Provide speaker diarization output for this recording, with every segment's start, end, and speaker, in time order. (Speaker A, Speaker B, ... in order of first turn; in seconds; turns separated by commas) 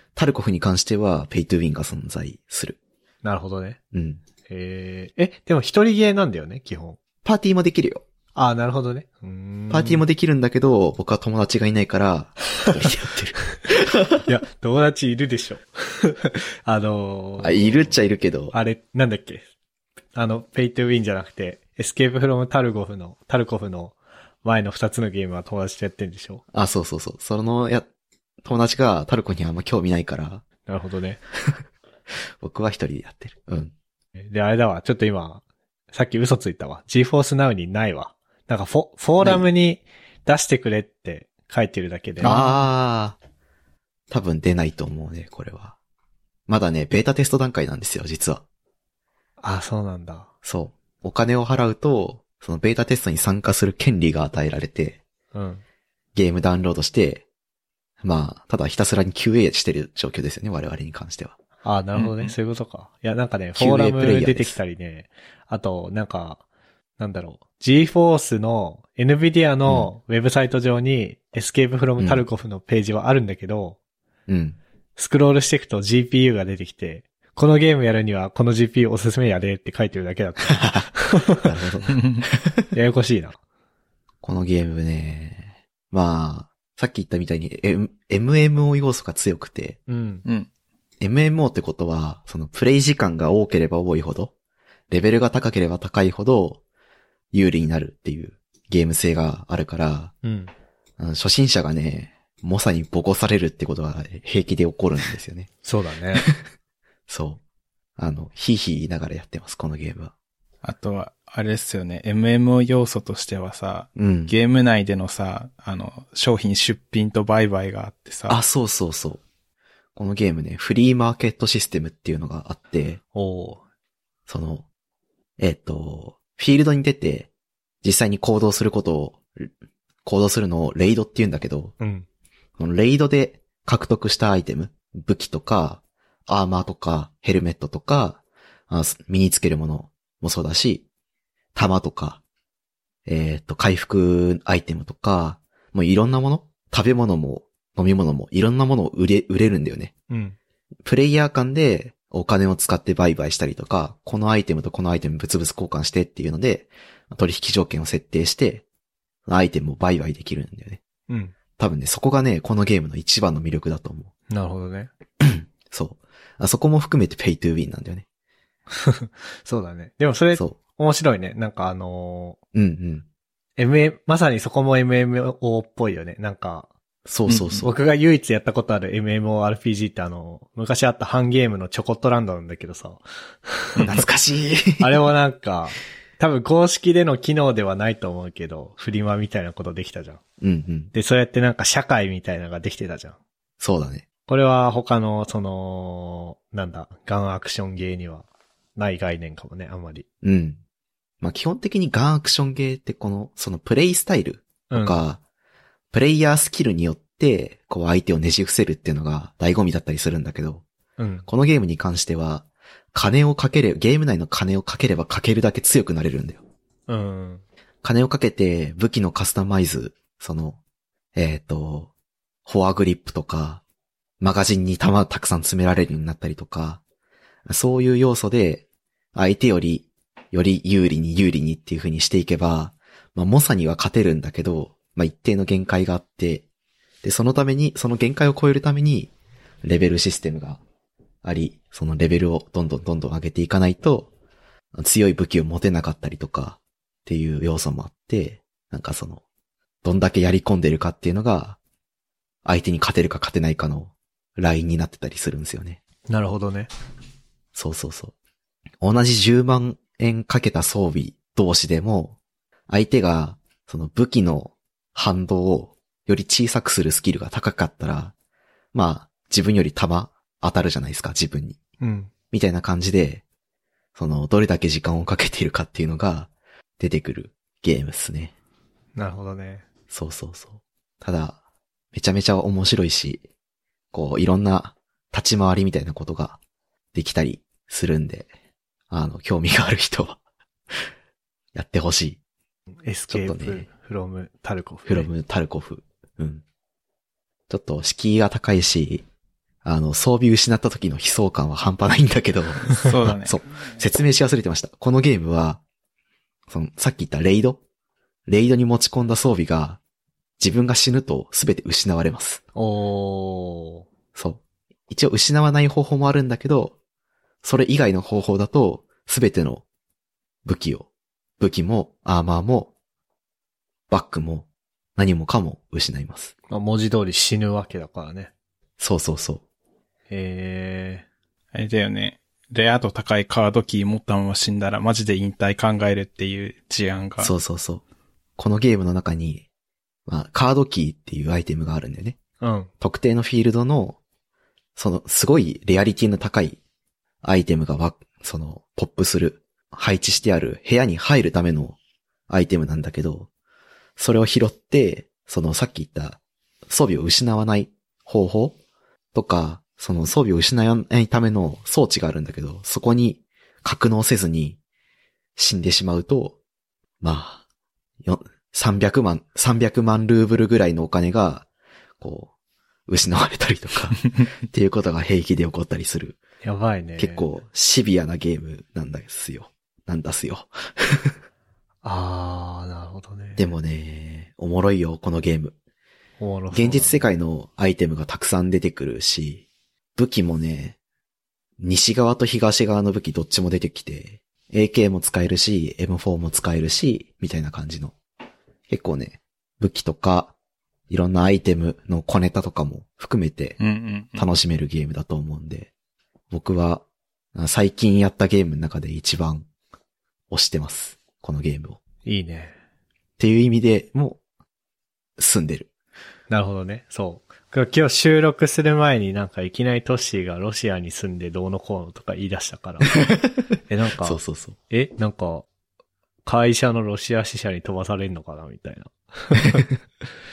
Speaker A: 0.2-2.8, Speaker B: 3.2-3.8, Speaker A: 3.9-4.2, Speaker B: 4.5-7.0, Speaker A: 7.2-8.0, Speaker B: 8.3-10.0, Speaker A: 9.7-14.3, Speaker B: 14.2-18.0, Speaker A: 17.4-18.5, Speaker B: 18.5-19.4, Speaker B: 20.1-26.4, Speaker A: 26.5-27.9, Speaker A: 28.4-30.4, Speaker B: 30.7-31.2, Speaker A: 32.4-33.7, Speaker B: 34.2-42.4, Speaker A: 39.2-39.5, Speaker C: 42.2-42.6, Speaker A: 42.2-43.2, Speaker A: 44.1-45.8, Speaker A: 46.5-48.4, Speaker B: 49.4-50.3, Speaker A: 50.4-55.0, Speaker B: 55.3-55.6, Speaker A: 56.1-57.2, Speaker A: 58.0-61.4, Speaker B: 61.6-66.4, Speaker C: 62.0-62.3, Speaker A: 63.6-64.6, Speaker B: 67.0-73.8, Speaker A: 72.0-72.2, Speaker A: 74.3-74.6, Speaker B: 75.0-81.5, Speaker A: 80.5-82.7, Speaker C: 81.9-82.2, Speaker B: 82.7-83.4, Speaker A: 84.2-89.8, Speaker B: 89.9-90.2, Speaker A: 91.0-94.3, Speaker A: 94.9-96.6, Speaker A: 97.3-100.1, Speaker B: 100.2-100.5, Speaker A: 101.0-105.5, Speaker B: 105.6-106.3, Speaker A: 106.2-106.4, Speaker A: 107.1-107.4, Speaker A: 108.0-110.1, Speaker C: 110.6-118.4, Speaker A: 114.0-114.3, Speaker A: 118.3-119.2, Speaker A: 120.0-123.0, Speaker B: 123.1-123.6, Speaker A: 124.3-124.7, Speaker A: 125.4-127.3, Speaker A: 127.8-129.5, Speaker A: 130.1-131.8, Speaker B: 131.8-132.1, Speaker A: 132.6-140.8, Speaker A: 141.6-142.2, Speaker A: 143.1-149.9, Speaker B: 150.1-150.4, Speaker A: 150.8-158.6, Speaker A: 159.3-160.8, Speaker B: 161.1-161.3, Speaker A: 161.6-164.1, Speaker B: 164.3-164.9, Speaker A: 165.2-168.1, Speaker B: 168.7-172.4, Speaker A: 172.5-173.1, Speaker B: 173.6-176.7, Speaker A: 177.1-177.7, Speaker C: 177.3-177.6, Speaker B: 177.6-183.8, Speaker A: 183.8-185.0, Speaker B: 184.8-190.2, Speaker A: 190.4-190.9, Speaker B: 190.9-193.2, Speaker A: 193.6-194.1, Speaker B: 194.3-200.1, Speaker A: 200.2-200.6, Speaker A: 201.2-205.2, Speaker B: 204.7-205.0, Speaker A: 205.9-210.6, Speaker B: 211.0-211.3, Speaker A: 211.3-216.4, Speaker B: 216.9-217.4, Speaker A: 217.8-220.6, Speaker A: 221.2-221.9, Speaker A: 222.5-223.6, Speaker A: 224.2-226.8, Speaker A: 227.5-236.4, Speaker A: 237.0-239.1, Speaker A: 239.6-240.6, Speaker A: 241.2-244.1, Speaker A: 244.8-249.2, Speaker A: 249.8-251.6, Speaker A: 252.4-255.8, Speaker B: 256.1-256.7, Speaker A: 257.5-258.1, Speaker A: 258.8-262.2, Speaker A: 262.7-268.1, Speaker A: 268.7-271.6, Speaker B: 271.8-272.1, Speaker A: 272.3-273.2, Speaker A: 274.0-278.3, Speaker B: 279.0-279.6, Speaker A: 279.9-281.4, Speaker A: 281.9-283.2, Speaker A: 283.9-286.4, Speaker A: 286.9-288.3, Speaker A: 288.9-290.2, Speaker A: 291.5-292.2, Speaker B: 292.8-295.1, Speaker A: 293.1-293.7, Speaker A: 294.9-296.4, Speaker A: 297.5-299.1, Speaker A: 299.6-305.6, Speaker C: 302.8-303.4, Speaker A: 306.5-307.6, Speaker A: 308.3-309.8, Speaker A: 310.4-312.4, Speaker B: 312.6-313.9, Speaker A: 314.1-316.8, Speaker A: 317.4-319.6, Speaker A: 320.4-320.9, Speaker A: 321.4-322.7, Speaker A: 323.9-326.3, Speaker B: 326.5-328.3, Speaker A: 328.8-329.4, Speaker B: 330.1-331.1, Speaker C: 331.5-337.3, Speaker A: 337.2-337.8, Speaker A: 338.4-339.4, Speaker A: 340.1-342.2, Speaker B: 342.4-342.7, Speaker A: 342.8-344.0, Speaker A: 344.8-346.6, Speaker A: 347.2-351.8, Speaker A: 352.3-353.3, Speaker A: 354.0-358.6, Speaker A: 359.1-364.6, Speaker A: 365.4-366.4, Speaker A: 367.0-367.4, Speaker A: 368.0-371.5, Speaker A: 372.0-372.3, Speaker A: 372.9-376.2, Speaker B: 376.4-377.3, Speaker A: 377.0-381.2, Speaker B: 381.8-383.5, Speaker A: 383.4-385.6, Speaker B: 386.2-387.1, Speaker A: 386.5-389.4, Speaker A: 390.0-390.8, Speaker A: 391.6-397.9, Speaker A: 398.7-400.3, Speaker A: 400.9-403.6, Speaker C: 403.6-404.3, Speaker A: 404.1-405.7, Speaker A: 406.3-406.8, Speaker A: 407.4-409.5, Speaker A: 410.3-411.8, Speaker B: 412.1-412.5, Speaker A: 413.2-414.2, Speaker A: 415.2-415.7, Speaker B: 416.3-423.0, Speaker A: 423.1-423.4, Speaker B: 423.7-425.5, Speaker A: 424.0-424.6, Speaker B: 426.2-429.7